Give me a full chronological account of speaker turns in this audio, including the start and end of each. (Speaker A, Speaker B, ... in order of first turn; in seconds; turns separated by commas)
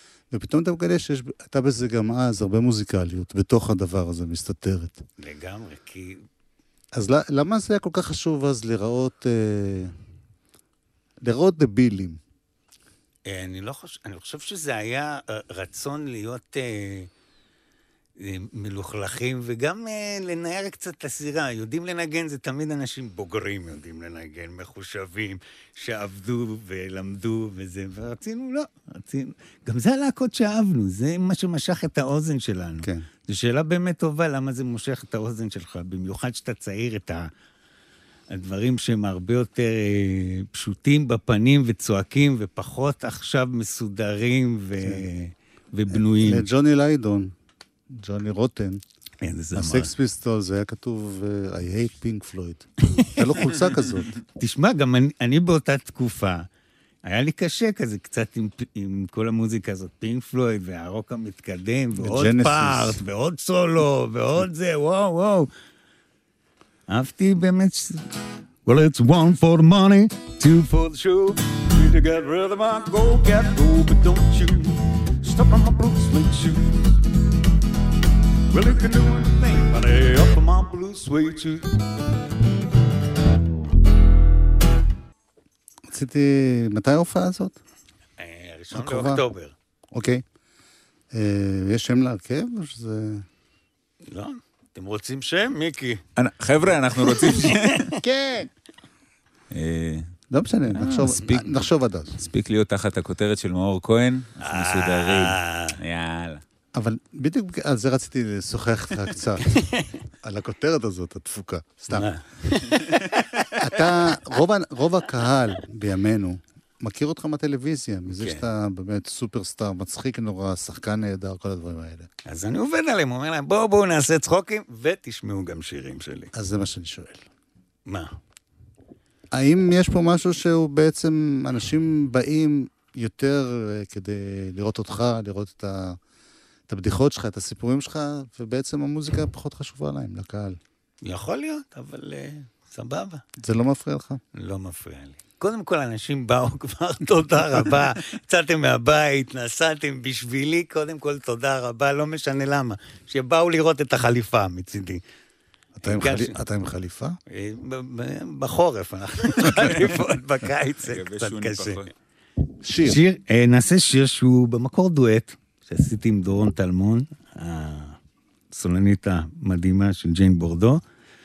Speaker A: 0.3-5.0, Speaker B: 5.2-6.2, Speaker A: 6.9-9.9, Speaker A: 11.2-12.2, Speaker B: 13.3-17.1, Speaker B: 18.2-37.3, Speaker A: 32.8-33.1, Speaker B: 38.3-46.5, Speaker A: 45.9-47.3, Speaker A: 47.9-48.8, Speaker B: 49.2-49.9, Speaker A: 49.5-54.1, Speaker B: 53.0-53.5, Speaker B: 54.4-56.5, Speaker B: 57.0-65.5, Speaker A: 62.0-63.0, Speaker B: 66.9-68.0, Speaker B: 68.7-76.9, Speaker B: 78.5-81.7, Speaker A: 85.9-87.6, Speaker B: 88.2-89.5, Speaker A: 88.7-89.2, Speaker A: 89.9-90.2, Speaker A: 91.1-93.3, Speaker B: 94.0-96.0, Speaker C: 96.2-97.9, Speaker B: 97.0-98.0, Speaker A: 98.0-98.5, Speaker C: 99.5-100.1, Speaker A: 100.3-102.2, Speaker C: 100.7-106.4, Speaker B: 104.4-105.8, Speaker A: 106.7-109.5, Speaker B: 109.4-109.9, Speaker A: 110.2-112.1, Speaker B: 111.9-114.2, Speaker A: 113.5-122.1, Speaker B: 118.2-118.5, Speaker B: 122.3-126.3, Speaker A: 126.3-127.2, Speaker B: 127.9-128.1, Speaker A: 129.3-136.0, Speaker A: 136.7-140.6, Speaker B: 141.0-143.2, Speaker A: 143.4-144.2, Speaker B: 144.3-155.0, Speaker A: 155.8-157.2, Speaker B: 155.8-156.4, Speaker B: 157.3-161.8, Speaker C: 160.8-161.9, Speaker A: 162.6-163.0, Speaker B: 162.8-168.0, Speaker B: 168.5-170.8